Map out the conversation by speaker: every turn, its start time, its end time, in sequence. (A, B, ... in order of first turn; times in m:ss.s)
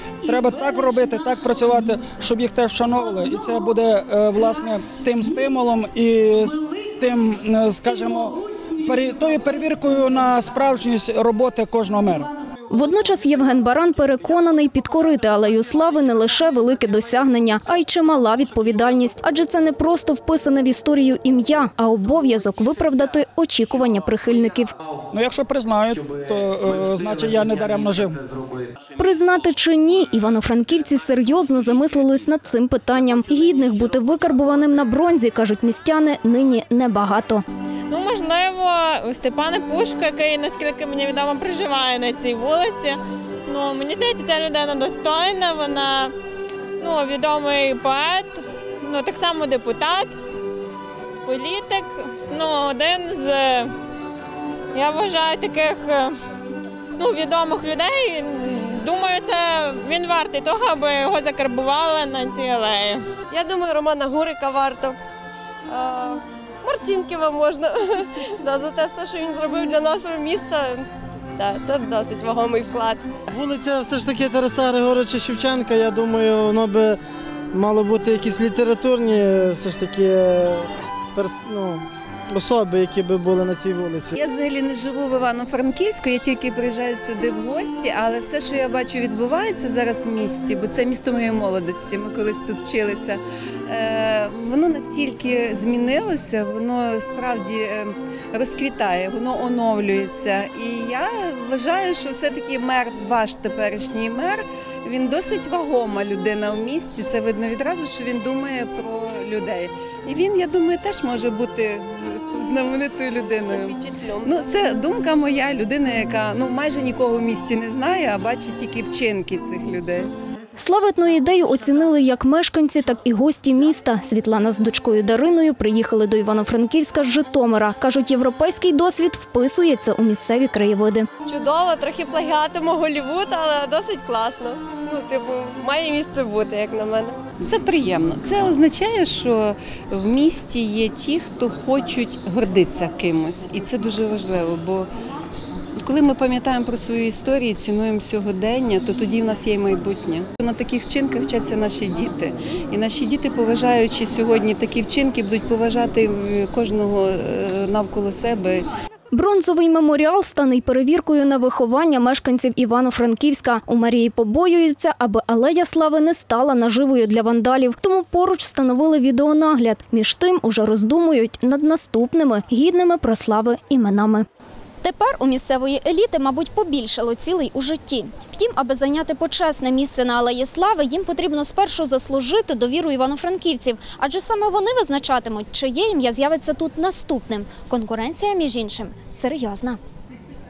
0:00.2-0:12.3 A
0:12.7-0:24.7 B
0:25.1-0:28.2 A
0:29.0-0:37.4 B
0:37.9-0:46.1 C
0:46.8-0:50.1 C
0:51.2-0:53.7 C
0:54.7-0:56.1 C
0:57.0-1:03.0 C
1:03.3-1:05.0 D
1:05.7-1:13.1 D
1:13.3-1:17.0 E
1:17.5-1:24.2 E
1:24.2-1:53.7 F
1:53.4-1:54.5 D
1:54.2-2:00.1 F
2:00.6-2:11.1 B
2:11.2-2:17.2 D
2:17.4-2:24.9 F
2:25.8-2:38.7 F
2:39.1-2:54.2 B
2:54.8-3:09.8 G
3:04.6-3:04.8 B
3:09.2-3:09.4 B